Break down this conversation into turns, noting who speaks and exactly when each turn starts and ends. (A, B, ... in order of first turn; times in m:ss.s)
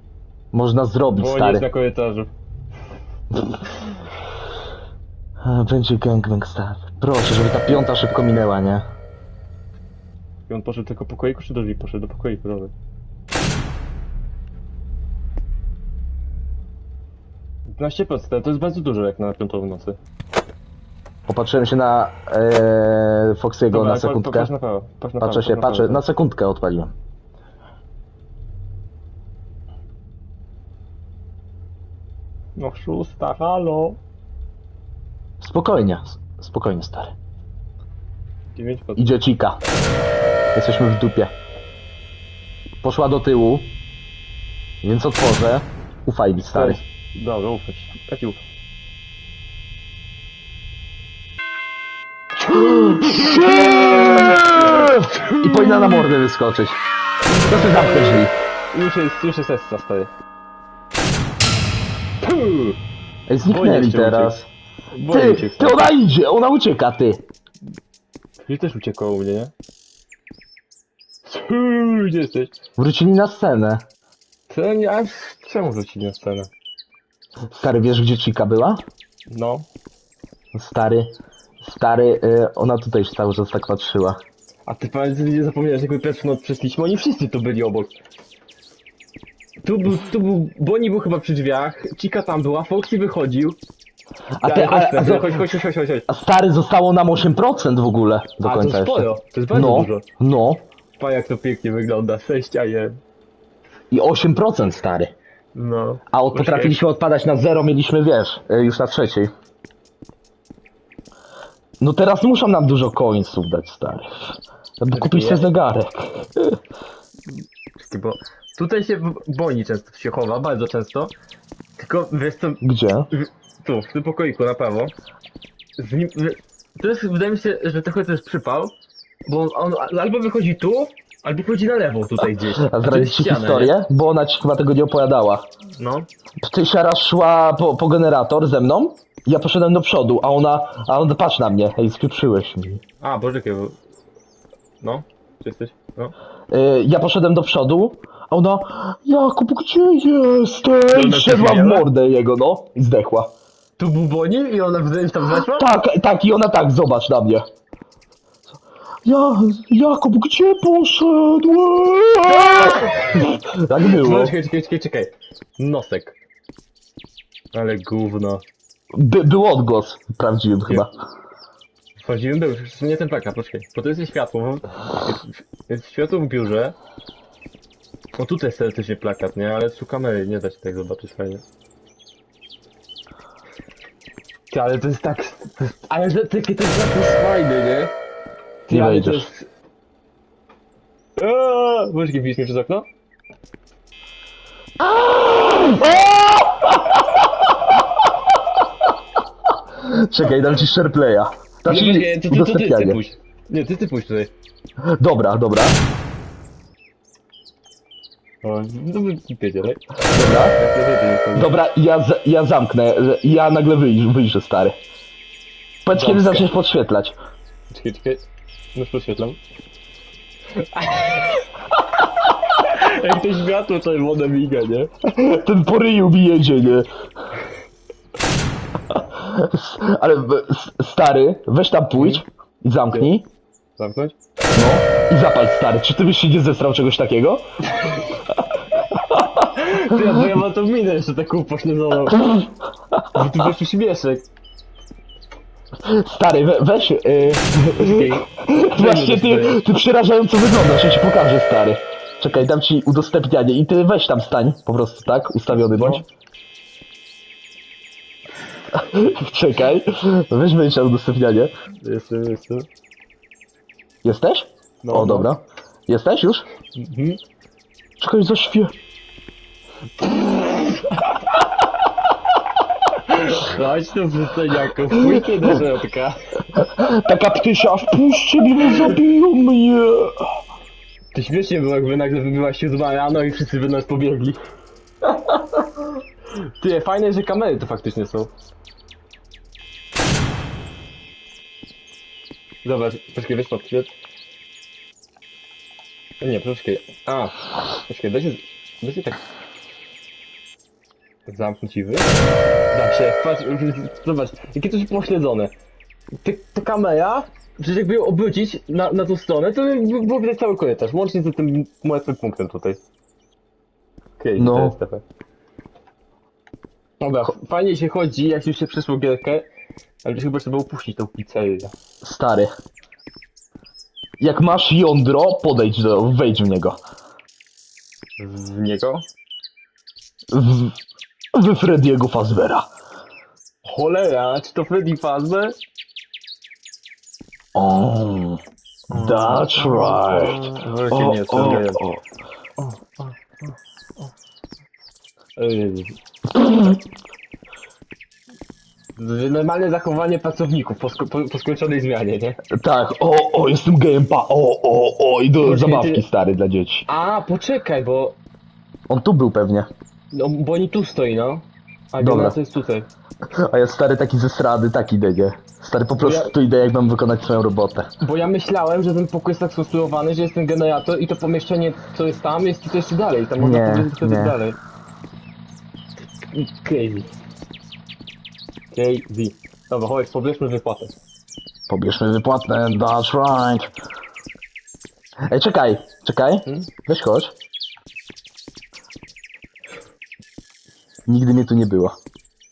0:00.5-0:01.7 A
0:01.2-0:02.3 B
0:05.4-0:08.8 A
0:10.5-0:12.7 B
0:17.7-0:20.0 B
0:21.3-0:24.5 A
0:23.7-0:26.0 B
0:25.2-0:26.9 A
0:32.6-0:34.0 B
0:35.4-0:37.1 A
0:38.5-0:39.2 B
0:39.0-0:39.6 A
0:40.5-0:41.3 A
0:42.8-0:43.7 A
0:44.8-0:46.8 A
0:46.4-0:48.4 B
0:52.5-0:56.8 A
0:54.1-0:56.0 B
0:57.3-0:58.3 A
0:58.7-1:00.1 B
1:02.2-1:02.8 B
1:03.3-1:04.5 A
1:03.4-1:04.4 B
1:04.9-1:05.9 B
1:05.1-1:07.2 A
1:08.4-1:09.5 B
1:11.2-1:12.5 B
1:12.8-1:13.8 A
1:14.5-1:16.5 B
1:17.5-1:18.8 A
1:19.3-1:19.6 B
1:20.5-1:24.2 A
1:24.7-1:27.9 B
1:29.6-1:33.6 B
1:34.4-1:35.4 A
1:34.4-1:36.0 B
1:36.1-1:40.6 A
1:38.4-1:40.0 B
1:41.0-1:43.0 B
1:43.9-1:45.1 A
1:45.5-1:46.8 B
1:46.1-1:49.3 A
1:51.8-1:56.6 A
1:54.9-1:55.5 B
1:57.8-2:01.1 B
2:01.8-2:04.9 B
2:02.6-2:03.1 A
2:05.8-2:08.7 B
2:09.2-2:13.8 B
2:12.6-2:15.5 A
2:15.8-2:16.1 B
2:16.4-2:22.8 A
2:23.0-2:23.8 B
2:24.8-2:26.1 B
2:26.5-2:33.3 A
2:30.9-2:31.9 B
2:33.8-2:35.7 B
2:35.5-2:37.4 A
2:39.0-2:44.3 A
2:42.4-2:43.2 B
2:43.8-2:46.2 B
2:47.5-2:48.4 B
2:48.9-2:50.9 A
2:52.0-2:56.8 B
2:58.2-3:01.4 B
3:04.5-3:07.9 B
3:08.7-3:09.5 B
3:08.7-3:09.3 A
3:11.2-3:12.9 B
3:14.8-3:17.5 A
3:19.7-3:23.0 A
3:21.6-3:24.3 B
3:24.8-3:25.8 A
3:28.4-3:29.8 B
3:30.1-3:30.6 A
3:30.5-3:31.5 B
3:31.3-3:34.8 A
3:35.8-3:37.2 A
3:35.9-3:36.5 B
3:37.7-3:39.4 B
3:40.6-3:41.4 B
3:42.5-3:44.9 B
3:45.2-3:46.9 A
3:48.9-3:53.3 A
3:52.0-3:52.2 B
3:53.8-3:54.2 B
3:54.5-3:57.4 A
3:58.1-3:58.4 A
3:59.0-3:59.3 A
3:59.4-4:02.5 B
4:03.1-4:04.2 B
4:05.8-4:16.0 A
4:07.8-4:09.6 B
4:15.5-4:16.0 B
4:18.7-4:21.5 A
4:21.8-4:22.7 B
4:24.0-4:26.4 A
4:24.8-4:25.3 B
4:26.7-4:27.2 B
4:28.0-4:28.7 A
4:30.1-4:30.9 B
4:32.9-4:36.2 B
4:36.6-4:40.4 A
4:41.1-4:44.4 B
4:46.4-4:48.3 B
4:52.6-4:53.9 B
4:56.2-4:57.4 B
4:57.9-4:59.2 B
5:01.3-5:02.1 B
5:02.7-5:05.5 B
5:06.2-5:12.8 B
5:14.2-5:15.0 B
5:14.4-5:14.8 A
5:17.0-5:19.5 B
5:20.0-5:21.7 B
5:22.0-5:22.5 A
5:24.2-5:26.8 A
5:28.2-5:29.0 B
5:30.3-5:30.8 A
5:31.3-5:32.7 A
5:33.6-5:35.6 B
5:37.5-5:42.0 A
5:38.9-5:41.8 B
5:42.6-5:43.1 B
5:45.4-5:46.0 B
5:46.4-5:46.8 A
5:49.0-5:52.4 B
5:52.6-5:56.8 A
5:55.4-5:56.0 B
5:56.9-5:58.2 B
5:58.9-5:59.7 A
6:00.1-6:02.9 B
6:02.0-6:02.4 A
6:03.3-6:07.9 A
6:06.0-6:06.3 B
6:08.0-6:14.6 B
6:13.4-6:14.4 A
6:16.3-6:17.1 B
6:18.7-6:20.9 B
6:21.7-6:23.7 A
6:25.3-6:27.3 A
6:31.1-6:32.0 A